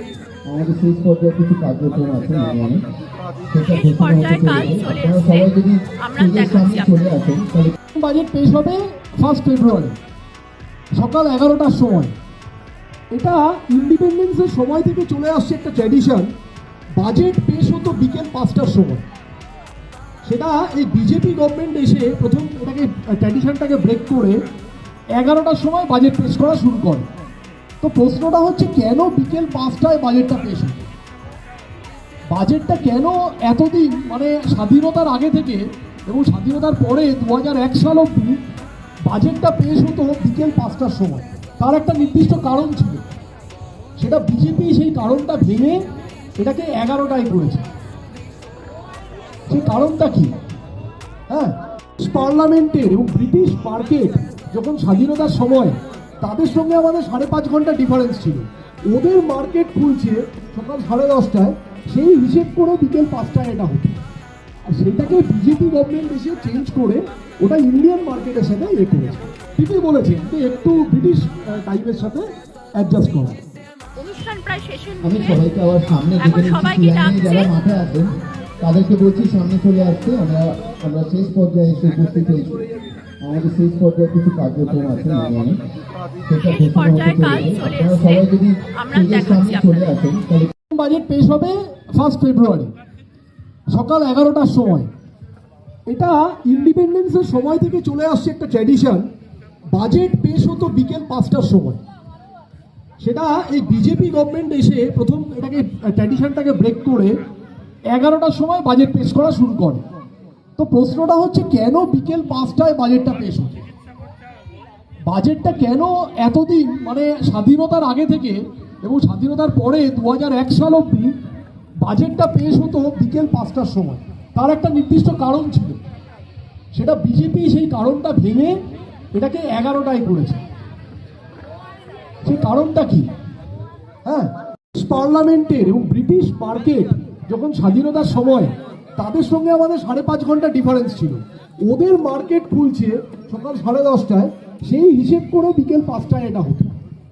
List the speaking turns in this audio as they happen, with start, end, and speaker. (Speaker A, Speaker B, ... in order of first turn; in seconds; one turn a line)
Speaker A: 0.5-2.8
Speaker A: 3.5-7.8
Speaker B: 3.6-7.1
Speaker C: 7.9-10.0
Speaker C: 10.9-12.1
Speaker C: 13.1-16.3
Speaker C: 16.9-19.0
Speaker C: 20.2-24.4
Speaker C: 25.1-27.1
Speaker C: 27.8-30.9
Speaker C: 32.3-38.4
Speaker C: 39.0-43.1
Speaker C: 44.0-47.7
Speaker C: 49.5-50.3
Speaker C: 51.3-64.0
Speaker C: 64.7-73.4
Speaker B: 74.0-75.4
Speaker A: 75.0-82.6
Speaker B: 76.2-77.5
Speaker A: 83.2-85.6
Speaker A: 86.3-90.5
Speaker B: 86.4-89.9
Speaker C: 90.7-92.7
Speaker C: 93.7-94.9
Speaker C: 95.9-99.1
Speaker C: 99.7-101.8
Speaker C: 103.0-107.2
Speaker C: 107.9-109.8
Speaker C: 110.6-113.7
Speaker C: 115.0-121.2
Speaker C: 121.8-125.8
Speaker C: 126.7-128.6
Speaker C: 129.1-130.4
Speaker C: 132.2-133.1
Speaker C: 134.0-146.7